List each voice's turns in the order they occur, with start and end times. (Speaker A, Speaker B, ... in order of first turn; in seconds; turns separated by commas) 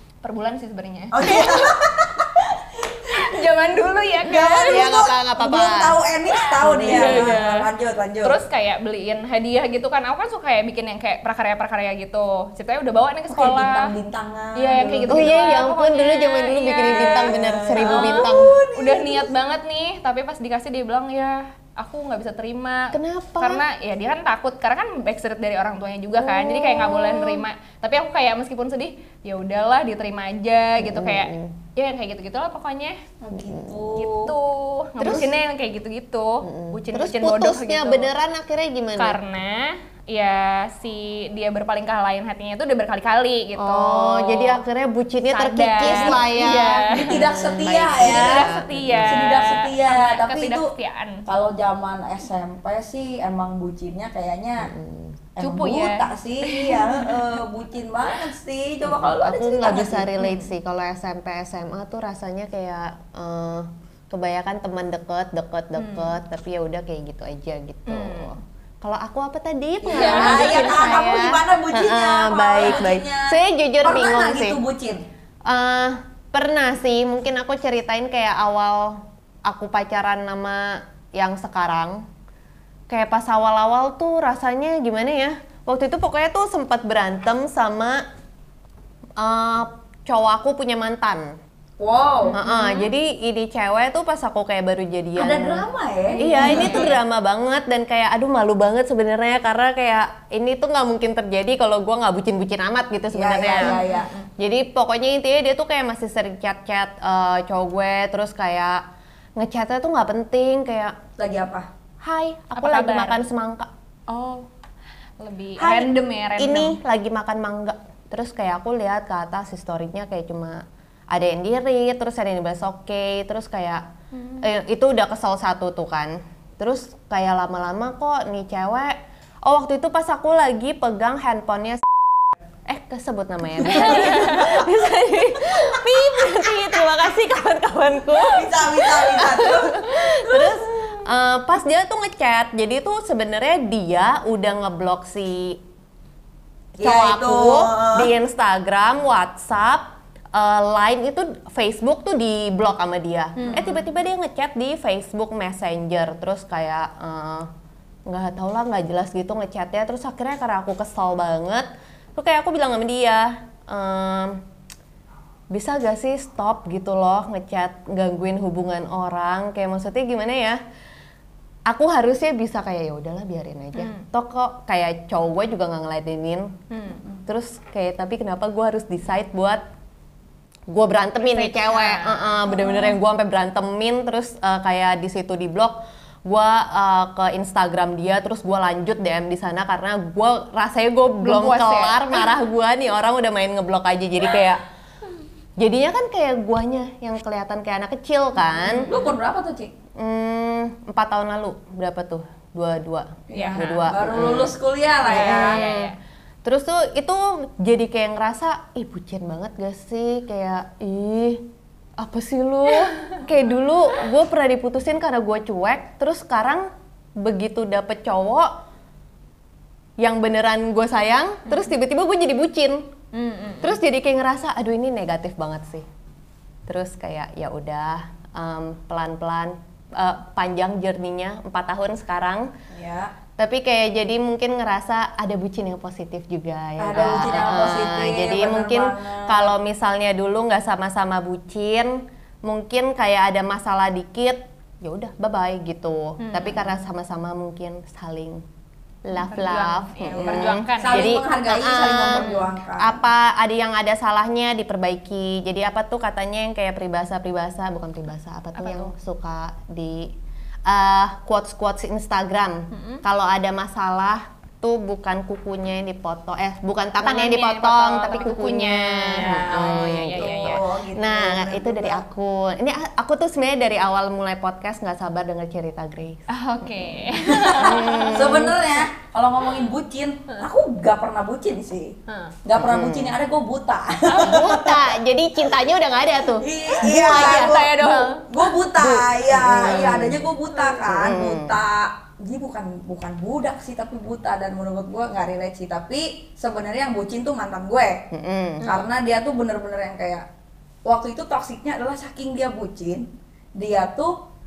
Speaker A: 0.2-1.7, Speaker B: 1.1-3.4, Speaker A: 3.1-5.0, Speaker B: 4.2-8.4, Speaker C: 4.7-6.0, Speaker A: 6.3-7.7, Speaker C: 6.6-7.4, Speaker A: 8.2-13.9, Speaker B: 13.3-15.6, Speaker A: 14.6-33.0, Speaker C: 15.1-18.6, Speaker B: 16.8-19.3, Speaker C: 22.9-23.6, Speaker C: 26.2-27.4, Speaker C: 30.8-31.5, Speaker B: 33.2-34.3, Speaker C: 33.4-33.9, Speaker A: 34.0-38.1, Speaker C: 35.0-35.3, Speaker C: 36.4-39.2, Speaker A: 39.0-44.6, Speaker C: 43.6-49.2, Speaker A: 45.3-47.2, Speaker B: 45.8-46.3, Speaker B: 46.9-48.5, Speaker A: 48.0-51.2, Speaker B: 49.0-50.7, Speaker B: 51.2-54.7, Speaker C: 54.6-55.2, Speaker B: 55.4-60.1, Speaker A: 55.4-57.2, Speaker C: 58.8-74.6, Speaker A: 60.2-60.5, Speaker A: 65.7-66.2, Speaker A: 67.9-68.3, Speaker B: 69.8-75.0, Speaker A: 69.9-70.7, Speaker C: 75.5-82.0, Speaker C: 82.9-88.0, Speaker C: 89.2-91.3, Speaker B: 91.8-92.4, Speaker A: 92.2-92.9, Speaker C: 92.3-95.6, Speaker B: 95.2-97.0, Speaker A: 96.2-97.0, Speaker C: 96.2-103.8, Speaker B: 103.1-104.1, Speaker A: 103.6-104.3, Speaker C: 104.4-108.8, Speaker C: 109.4-110.9, Speaker B: 111.2-111.7, Speaker C: 112.0-113.7, Speaker A: 112.5-113.2, Speaker A: 114.1-114.5, Speaker A: 115.2-116.8, Speaker C: 116.4-123.8, Speaker A: 124.1-124.5, Speaker C: 124.4-131.8, Speaker C: 132.7-145.6, Speaker A: 133.6-135.2, Speaker B: 133.8-134.5, Speaker B: 138.3-140.6, Speaker B: 146.8-148.1, Speaker C: 146.8-157.5, Speaker A: 153.4-153.9, Speaker C: 158.1-164.4, Speaker C: 165.5-170.6, Speaker C: 171.7-176.5, Speaker A: 173.7-174.1, Speaker A: 176.7-177.1, Speaker C: 177.3-179.6, Speaker C: 180.7-194.6, Speaker A: 181.2-182.8, Speaker A: 191.2-192.4, Speaker C: 195.6-198.9, Speaker A: 198.5-199.1, Speaker B: 198.8-199.7, Speaker C: 200.0-205.9, Speaker B: 203.3-205.6, Speaker A: 203.3-203.9, Speaker A: 205.1-205.9, Speaker C: 206.4-211.4, Speaker C: 212.0-218.5, Speaker C: 220.0-222.9, Speaker A: 221.5-221.7, Speaker A: 223.1-223.8, Speaker C: 223.6-225.8, Speaker C: 226.7-232.5, Speaker B: 232.7-233.1, Speaker C: 233.4-248.4, Speaker B: 236.8-239.5, Speaker A: 236.9-237.7, Speaker A: 246.2-246.8, Speaker C: 249.1-260.1, Speaker A: 249.1-251.1, Speaker B: 250.1-253.0, Speaker A: 258.5-258.9, Speaker C: 260.7-278.6, Speaker A: 262.7-263.0, Speaker A: 267.0-270.6, Speaker B: 269.1-272.0, Speaker A: 276.3-278.6, Speaker B: 277.2-281.9, Speaker A: 282.1-282.3, Speaker B: 282.4-284.8, Speaker C: 282.6-283.1, Speaker C: 284.1-287.6, Speaker B: 286.3-298.0, Speaker A: 286.8-288.2, Speaker C: 288.7-291.6, Speaker C: 298.1-298.8, Speaker B: 298.6-300.2, Speaker B: 300.9-303.0, Speaker B: 303.6-304.1